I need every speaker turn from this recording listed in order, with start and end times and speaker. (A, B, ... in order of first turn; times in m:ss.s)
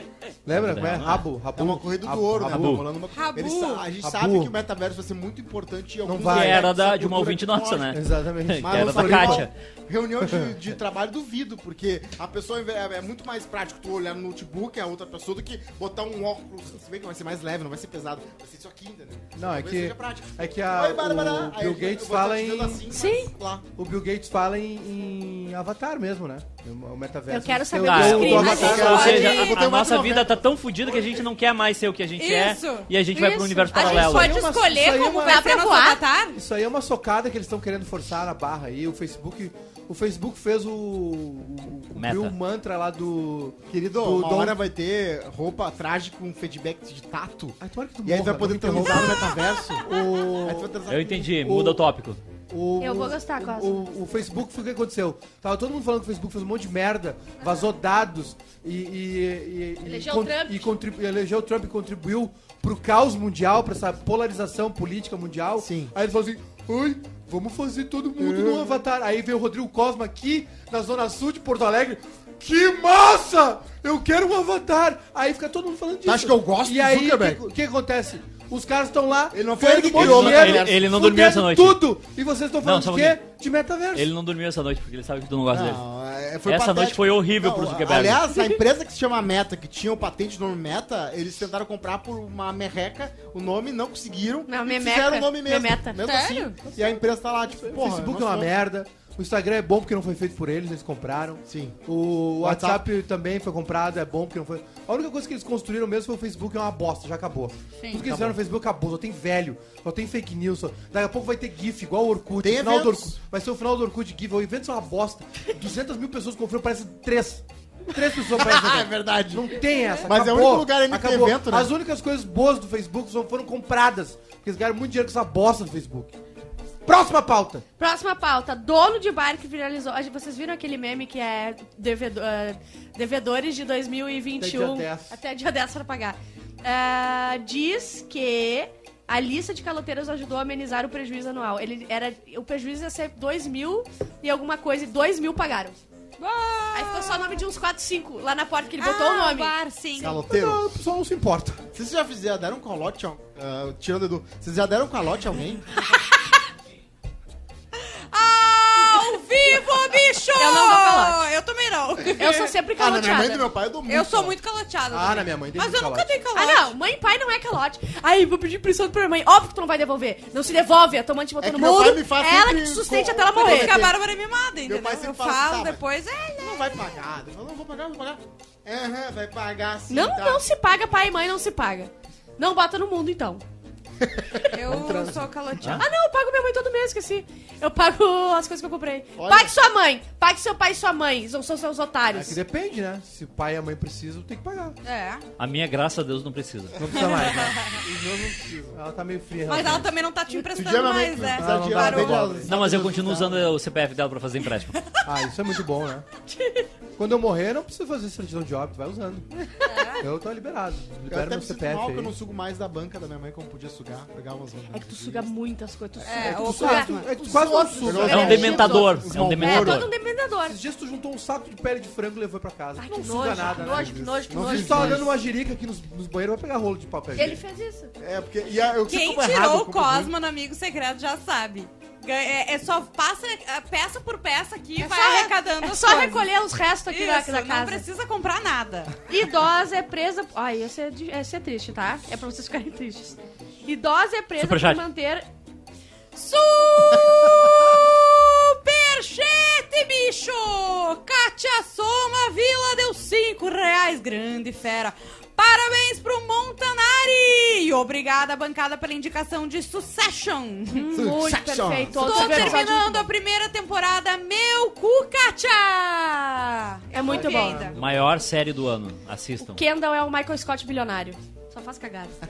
0:00.5-0:02.8 A
0:00.5-0:01.3 B
0:01.5-0:08.0 C
0:02.5-0:02.8 B
0:03.1-0:03.9 D
0:04.0-0:04.5 A
0:06.0-0:06.7 A
0:06.2-0:09.5 B
0:07.9-0:09.5 A
0:08.6-0:23.7 C
0:10.2-0:10.5 A
0:19.4-0:22.8 A
0:22.9-0:23.3 E
0:23.8-0:29.4 A
0:27.3-0:29.5 E
0:27.9-0:34.4 B
0:28.3-0:30.4 C
0:28.9-0:29.6 D
0:32.2-0:32.9 D
0:33.1-0:34.3 E
0:33.7-0:36.4 D
0:33.8-0:35.5 A
0:35.2-0:36.0 E
0:36.3-0:44.6 A
0:42.0-0:42.4 B
0:43.7-0:49.9 C
0:47.6-0:50.8 A
0:50.4-0:51.4 C
0:50.9-0:52.2 B
0:51.4-0:51.8 A
0:52.5-1:24.1 A
0:52.8-0:53.8 E
0:59.8-1:00.7 E
1:05.6-1:05.9 C
1:08.2-1:08.8 C
1:16.0-1:17.4 C
1:19.3-1:21.0 C
1:19.9-1:21.8 B
1:22.6-1:23.2 B
1:23.9-1:25.8 B
1:25.5-1:38.5 C
1:26.5-1:28.2 B
1:34.5-1:36.4 E
1:36.0-1:36.5 D
1:36.6-2:06.2 A
1:41.5-1:41.8 C
1:42.4-1:42.9 C
1:47.8-1:48.0 D
1:48.0-1:48.4 C
1:52.4-1:53.2 C
1:58.2-2:01.7 C
2:06.8-2:07.6 A
2:07.8-2:25.8 E
2:14.4-2:15.2 A
2:26.2-2:27.4 D
2:26.7-2:29.5 E
2:28.8-2:30.2 D
2:30.0-2:30.6 C
2:30.0-2:31.6 A
2:31.7-2:35.7 C
2:37.8-2:42.5 D
2:38.8-2:39.6 E
2:40.4-2:41.2 E
2:42.2-2:43.5 E
2:42.8-2:44.4 C
2:43.9-2:46.7 D
2:44.9-2:46.1 A
2:46.4-2:53.9 E
2:51.4-2:54.0 C
2:53.3-2:56.9 D
2:54.6-2:55.8 C
2:56.4-3:00.4 C
2:59.9-3:03.4 E
3:04.5-3:05.8 D
3:04.6-3:05.8 A
3:05.8-3:12.4 E
3:09.2-3:09.6 C
3:12.1-3:14.8 A
3:14.8-3:15.2 D
3:15.4-3:16.9 B
3:16.8-3:17.8 A
3:16.8-3:18.8 C
3:16.9-3:17.7 D
3:18.7-3:19.9 A
3:19.4-3:22.3 D
3:20.3-3:23.5 C
3:21.4-3:22.7 A
3:22.4-3:24.8 B
3:25.0-3:26.1 A
3:27.0-3:32.1 A
3:29.6-3:30.0 D
3:31.1-3:35.3 C
3:34.7-3:40.6 E
3:36.0-3:37.2 D
3:36.1-3:39.0 A
3:37.6-3:39.8 C
3:38.0-3:39.9 B
3:40.4-3:47.4 A
3:42.8-3:45.1 E
3:43.6-3:45.2 C
3:47.1-3:47.9 E
3:48.0-3:50.1 C
3:48.9-3:56.3 D
3:54.8-3:57.8 E
3:56.9-3:59.0 D
3:59.1-4:05.3 E
4:04.4-4:04.8 B
4:06.1-4:20.9 D
4:20.7-4:23.1 E
4:20.9-4:22.6 C
4:21.9-4:27.8 D
4:26.9-4:27.7 E
4:27.0-4:28.0 A
4:27.7-4:29.6 B
4:29.4-4:32.2 E